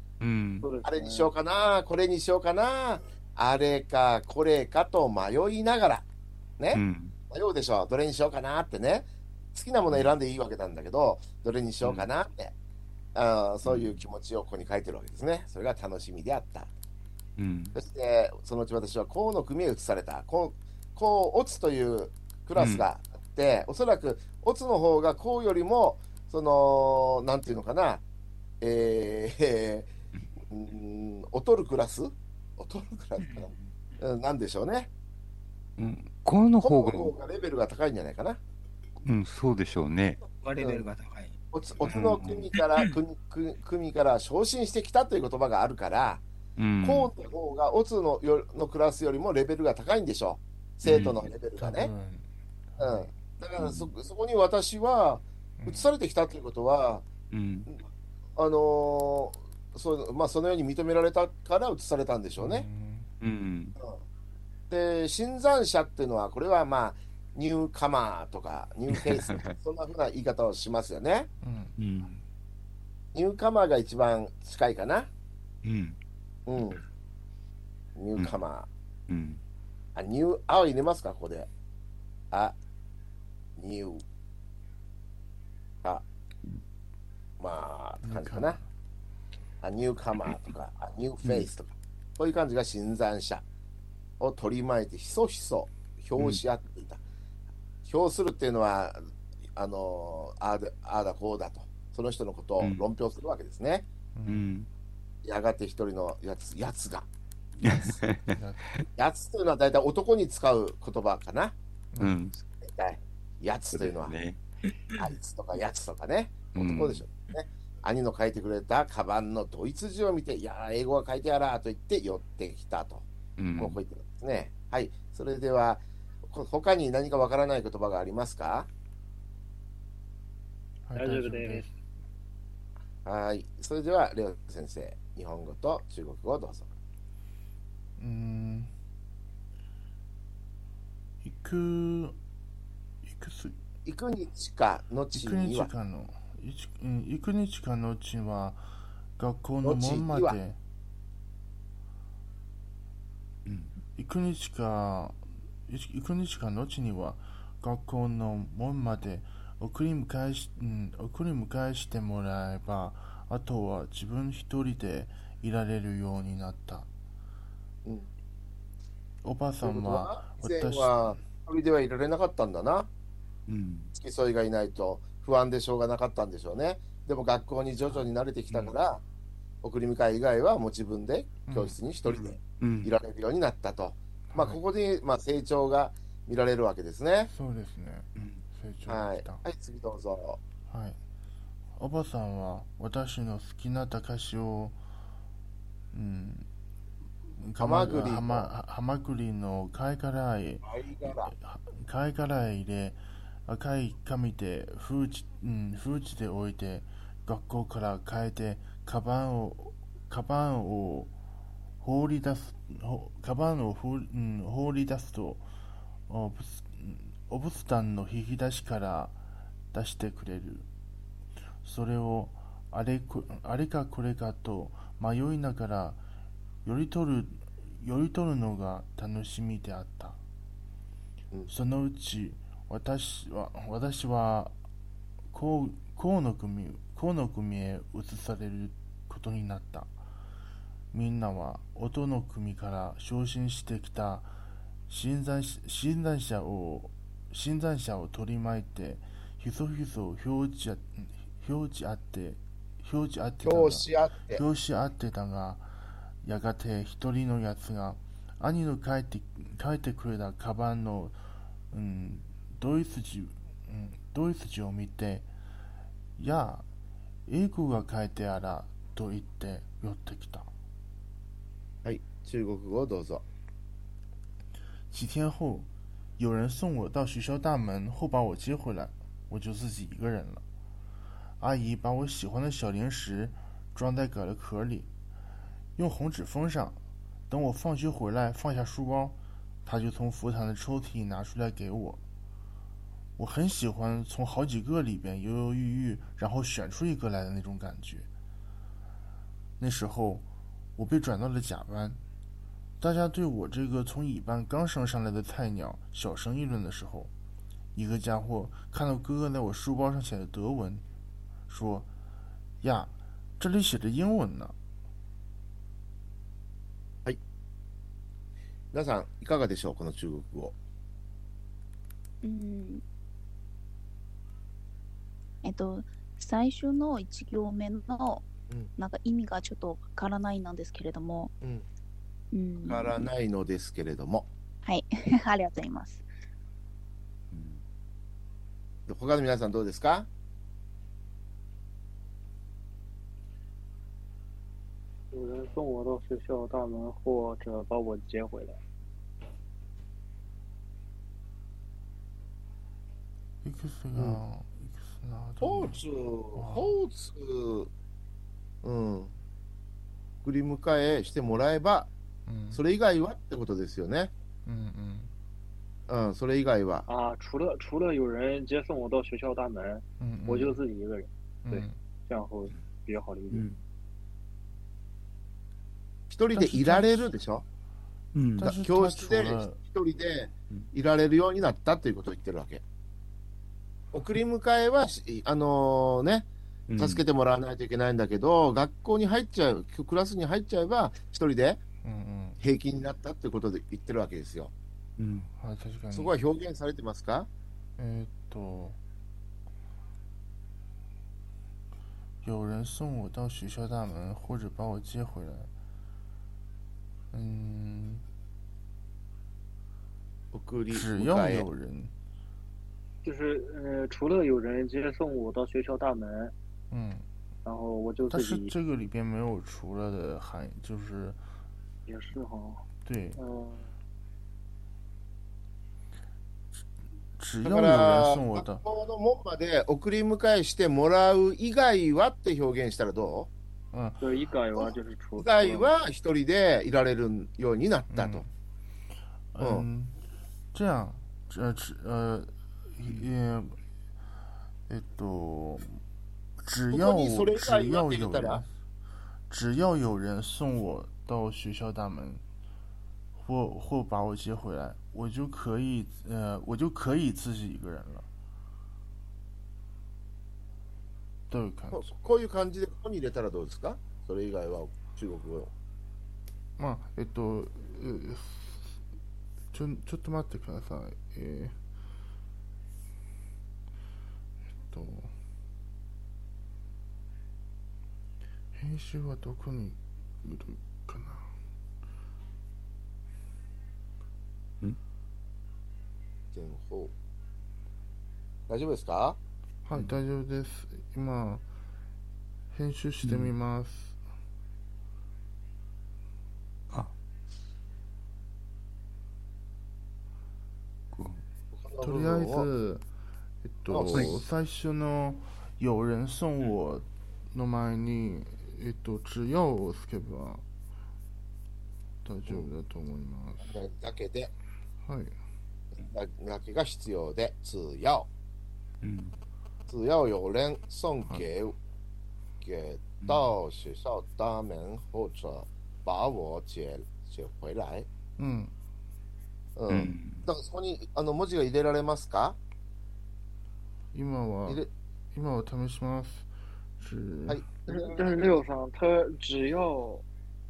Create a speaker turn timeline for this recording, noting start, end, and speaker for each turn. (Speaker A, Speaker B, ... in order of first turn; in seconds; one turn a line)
Speaker A: 0.2-0.7
Speaker B: 0.6-1.3
Speaker C: 0.8-6.1
Speaker C: 6.6-12.5
Speaker A: 6.7-7.2
Speaker A: 11.8-12.1
Speaker C: 13.1-16.7
Speaker A: 13.6-14.0
Speaker A: 17.4-17.8
Speaker C: 17.8-28.0
Speaker A: 22.6-22.9
Speaker C: 28.6-29.9
Speaker C: 30.5-34.9
Speaker D: 33.2-33.6
Speaker A: 35.8-37.1
Speaker C: 36.6-38.4
Speaker A: 39.0-40.2
Speaker D: 40.4-41.4
Speaker C: 40.6-40.9
Speaker C: 41.5-46.2
Speaker A: 41.9-42.5
Speaker D: 42.6-43.0
Speaker A: 46.6-47.1
Speaker C: 46.8-51.9
Speaker A: 50.8-51.3
Speaker E: 51.6-53.2
Speaker C: 52.8-57.1
Speaker A: 53.6-53.9
Speaker E: 55.6-55.9
Speaker A: 57.3-57.7
Speaker C: 58.4-62.7
Speaker E: 62.4-63.1
Speaker A: 63.2-63.8
Speaker C: 64.7-71.3
Speaker A: 68.9-69.5
Speaker E: 71.4-71.8
Speaker A: 71.8-72.2
Speaker C: 73.1-75.1
Speaker A: 75.6-76.0
Speaker C: 76.5-76.8
Speaker C: 78.0-78.7
Speaker A: 78.2-78.4
Speaker A: 79.1-79.4
Speaker C: 80.0-81.5
Speaker C: 82.3-82.6
Speaker C: 83.6-84.0
Speaker C: 87.4-88.6
Speaker E: 88.0-88.7
Speaker C: 89.6-93.4
Speaker A: 91.2-91.5
Speaker C: 94.2-97.0
Speaker A: 96.2-96.4
Speaker C: 97.8-103.9
Speaker E: 104.1-104.5
Speaker A: 104.3-104.7
Speaker C: 105.2-107.1
Speaker A: 107.6-108.4
Speaker C: 107.6-108.0
Speaker E: 108.3-108.7
Speaker C: 109.0-111.5
Speaker A: 112.0-112.4
Speaker C: 112.4-114.2
Speaker A: 113.7-114.4
Speaker C: 115.0-128.7
Speaker A: 116.5-117.0
Speaker A: 123.4-123.8
Speaker E: 130.9-131.7
Speaker B: 130.9-131.7
Speaker C: 133.1-136.7
Speaker E: 138.0-138.7
Speaker E: 141.2-142.2
Speaker E: 143.0-143.6
Speaker C: 143.8-145.7
Speaker E: 145.1-148.7
Speaker E: 149.2-150.6
Speaker C: 149.6-150.4
Speaker A: 153.5-153.8
Speaker E: 154.0-166.9
Speaker E: 169.2-171.2
Speaker C: 169.6-172.9
Speaker A: 173.5-173.9
Speaker C: 173.9-179.0
Speaker C: 179.6-187.3
Speaker E: 181.5-181.8
Speaker A: 182.1-182.9
Speaker E: 184.3-184.6
Speaker E: 187.3-189.4
Speaker A: 188.2-188.4
Speaker C: 188.9-190.4
Speaker E: 190.7-191.0
Speaker E: 191.8-194.8
Speaker E: 195.9-196.5
Speaker E: 197.4-211.1
Speaker C: 197.6-198.5
Speaker C: 200.6-201.3
Speaker E: 211.8-215.5
Speaker E: 216.1-219.2
Speaker E: 219.7-220.7
Speaker E: 221.6-226.0
Speaker E: 226.7-230.2
Speaker E: 231.5-234.5
Speaker E: 235.3-240.0
Speaker E: 240.9-244.3
Speaker E: 244.9-255.7
Speaker C: 253.4-254.4
Speaker E: 256.2-261.2
Speaker E: 261.7-265.3
Speaker E: 266.2-266.7
Speaker E: 267.3-270.5
Speaker C: 271.8-273.2
Speaker E: 274.9-280.4
Speaker E: 281.4-284.9
Speaker E: 285.8-292.0
Speaker E: 293.2-298.1
Speaker E: 299.6-302.0
Speaker E: 302.8-307.1
Speaker E: 307.8-310.9
Speaker E: 311.5-311.9
Speaker E: 312.6-314.6
Speaker C: 318.7-320.6
Speaker F: 322.2-322.8
Speaker F: 325.4-331.3
Speaker C: 331.4-331.7
Speaker F: 332.3-333.1
Speaker C: 332.6-334.3
Speaker F: 334.6-336.1
Speaker A: 337.3-337.6
Speaker C: 338.9-340.1
Speaker B: 345.1-348.6
Speaker E: 353.4-355.8
Speaker C: 353.9-354.2
Speaker C: 355.4-357.7
Speaker E: 356.4-356.8
Speaker C: 358.6-359.1
Speaker C: 360.2-361.9
Speaker E: 362.3-362.6
Speaker C: 362.5-364.1
Speaker E: 364.5-365.1
Speaker C: 365.9-366.9
Speaker B: 366.9-373.4
Speaker E: 370.0-370.6
Speaker E: 371.4-371.8
Speaker A: 373.3-373.6
Speaker C: 376.1-377.4
Speaker E: 376.3-377.1
Speaker A: 378.1-378.5
Speaker E: 378.4-379.6
Speaker C: 378.4-382.6
Speaker C: 383.9-391.6
Speaker A: 386.7-387.0
Speaker E: 391.8-392.4
Speaker C: 392.4-394.5
Speaker A: 395.0-395.3
Speaker E: 395.4-396.1
Speaker C: 395.9-397.3
Speaker E: 397.8-398.8
Speaker E: 402.2-405.5
Speaker E: 407.1-408.1
Speaker C: 410.3-411.5
Speaker E: 410.7-411.9
Speaker B: 413.0-416.3
Speaker E: 416.7-417.1
Speaker B: 417.4-418.5
Speaker E: 418.1-421.2
Speaker B: 421.9-422.6
Speaker E: 422.9-423.2
Speaker B: 423.2-423.6
Speaker E: 427.2-428.6
Speaker C: 427.4-433.3
Speaker E: 433.7-434.1
Speaker B: 434.0-435.7
Speaker C: 434.6-438.3
Speaker E: 437.9-438.3
Speaker E: 439.3-440.0
Speaker C: 439.4-439.7
Speaker E: 440.5-443.6
Speaker E: 444.7-445.8
Speaker E: 446.4-448.5
Speaker C: 446.7-448.4
Speaker E: 449.3-452.2
Speaker E: 453.2-458.1
Speaker E: 461.3-461.9
Speaker C: 461.7-465.5
Speaker E: 466.6-468.8
Speaker E: 469.5-471.6
Speaker E: 474.7-475.1
Speaker E: 478.6-481.3
Speaker C: 486.3-486.9
Speaker C: 488.5-489.2
Speaker E: 489.6-491.4
Speaker E: 492.5-494.0
Speaker A: 493.0-493.3
Speaker A: 500.9-501.2
Speaker C: 501.5-502.5
Speaker E: 501.8-502.9
Speaker E: 503.4-510.4
Speaker C: 503.7-504.2
Speaker E: 512.0-513.6
Speaker C: 513.4-514.3
Speaker E: 514.9-515.2
Speaker C: 515.8-518.1
Speaker A: 518.8-519.2
Speaker C: 519.7-521.6
Speaker C: 522.4-527.9
Speaker A: 523.0-523.3
Speaker E: 528.2-528.5
Speaker C: 529.6-532.4
Speaker A: 529.7-530.3
Speaker E: 533.9-537.5
Speaker C: 537.3-538.4
Speaker B: 537.7-540.0